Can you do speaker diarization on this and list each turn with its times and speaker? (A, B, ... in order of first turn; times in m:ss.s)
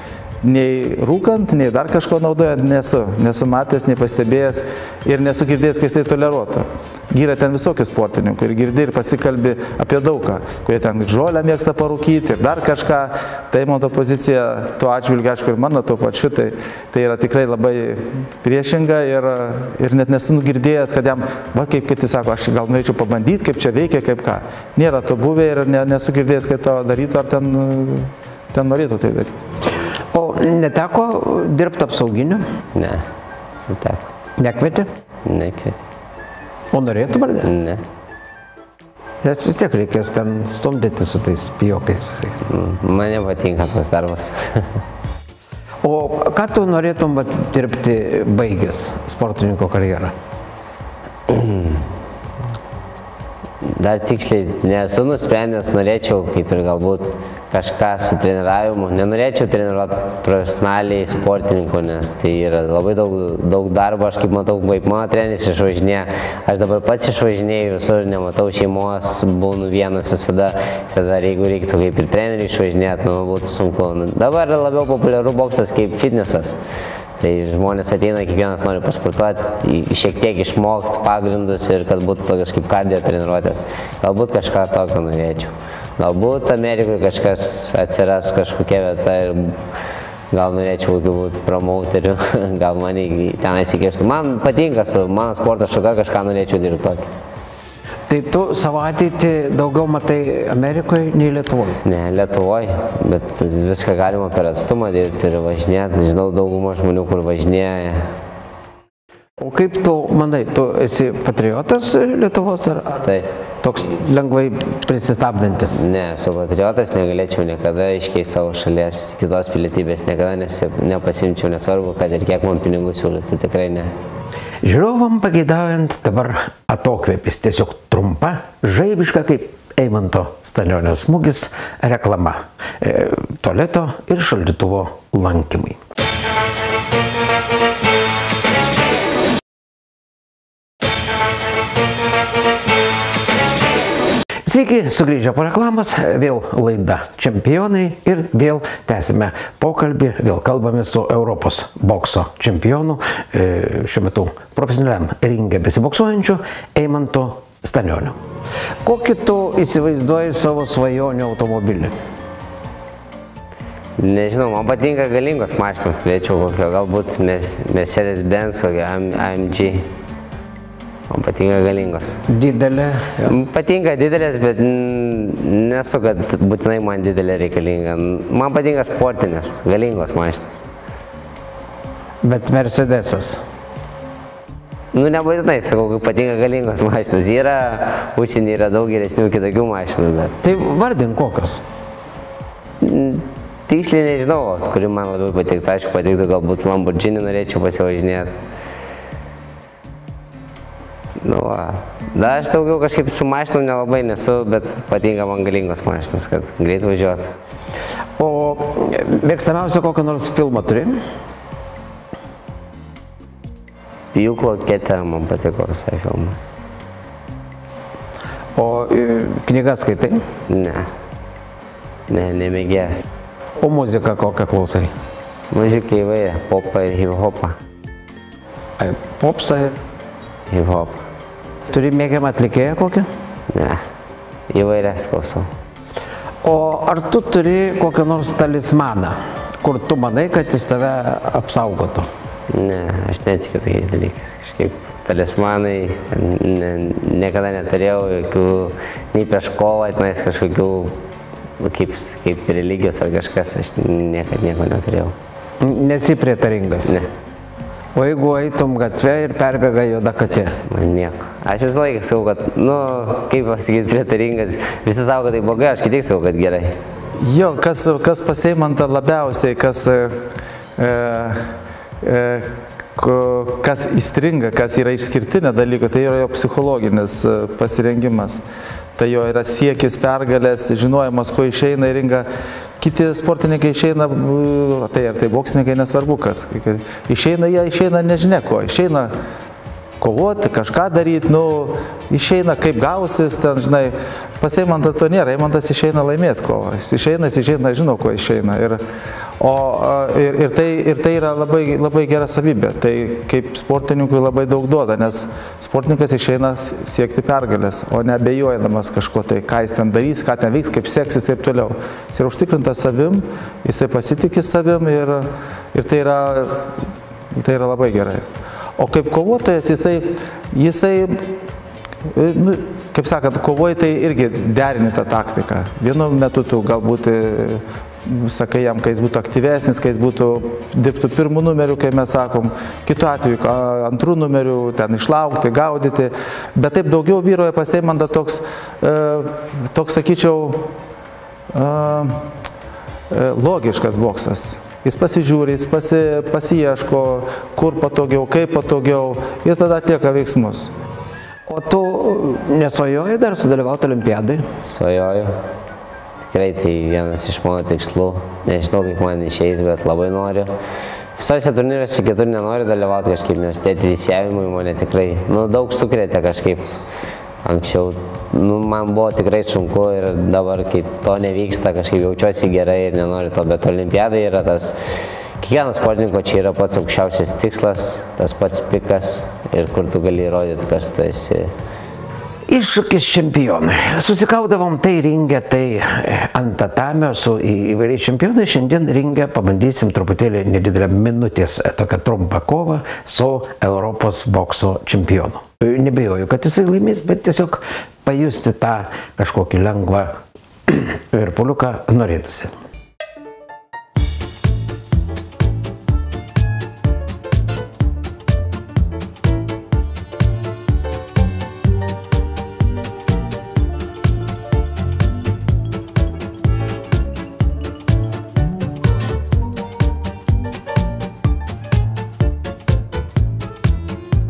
0:00.4-0:29.4 A
0:30.1-0:32.4 B
0:32.7-0:33.0 C
0:33.7-0:34.1 C
0:34.4-0:34.9 B
0:35.2-0:35.8 C
0:36.7-0:37.5 B
0:37.4-0:37.8 C
0:39.2-0:42.4 B
0:42.5-0:44.8 C
0:45.8-0:50.1 B
0:51.3-0:51.8 C
0:53.6-1:16.6 C
1:17.2-1:29.6 C
1:30.3-1:37.1 C
1:38.1-1:41.8 B
1:41.8-1:48.1 C
1:49.4-1:53.0 B
1:53.6-1:55.8 B
1:55.7-2:03.9 C
2:04.6-2:15.8 B
2:24.4-2:38.2 B
2:38.8-2:41.9 B
2:44.0-2:49.9 C
2:51.1-2:52.2 C
2:52.3-2:53.3 B
2:53.2-3:00.7 C
3:02.2-3:03.4 B
3:04.9-3:10.4 C
3:10.4-3:11.6 B
3:12.8-3:18.4 C
3:21.2-3:27.3 C
3:28.2-3:31.0 B
3:34.1-3:36.4 C
3:38.6-3:40.2 B
3:40.5-3:40.9 C
3:42.1-3:43.0 C
3:43.6-3:44.9 B
3:45.5-3:47.6 C
3:48.8-3:49.8 B
3:50.5-3:51.0 C
3:51.7-3:53.1 B
3:53.5-3:53.8 C
3:54.5-3:55.5 C
3:56.4-4:02.1 B
4:02.5-4:11.0 C
4:11.6-4:15.1 C
4:15.6-4:17.0 B
4:17.9-4:20.6 B
4:20.6-4:26.8 C
4:27.2-4:30.2 A
4:30.8-4:31.5 A
4:32.0-4:38.4 A
4:39.0-4:42.3 A
4:42.8-4:49.1 A
4:50.0-4:58.8 A
4:59.4-5:16.7 A
5:17.3-5:18.2 A
5:18.8-5:21.3 A
5:22.1-5:40.7 A
5:41.5-5:42.2 A
5:43.1-5:50.7 A
5:51.5-5:54.5 B
5:54.6-5:55.3 C
5:56.2-6:00.5 C
6:01.2-6:06.7 C
6:07.4-6:14.8 C
6:15.4-6:21.5 C
6:22.5-6:40.1 B
6:40.7-6:42.6 B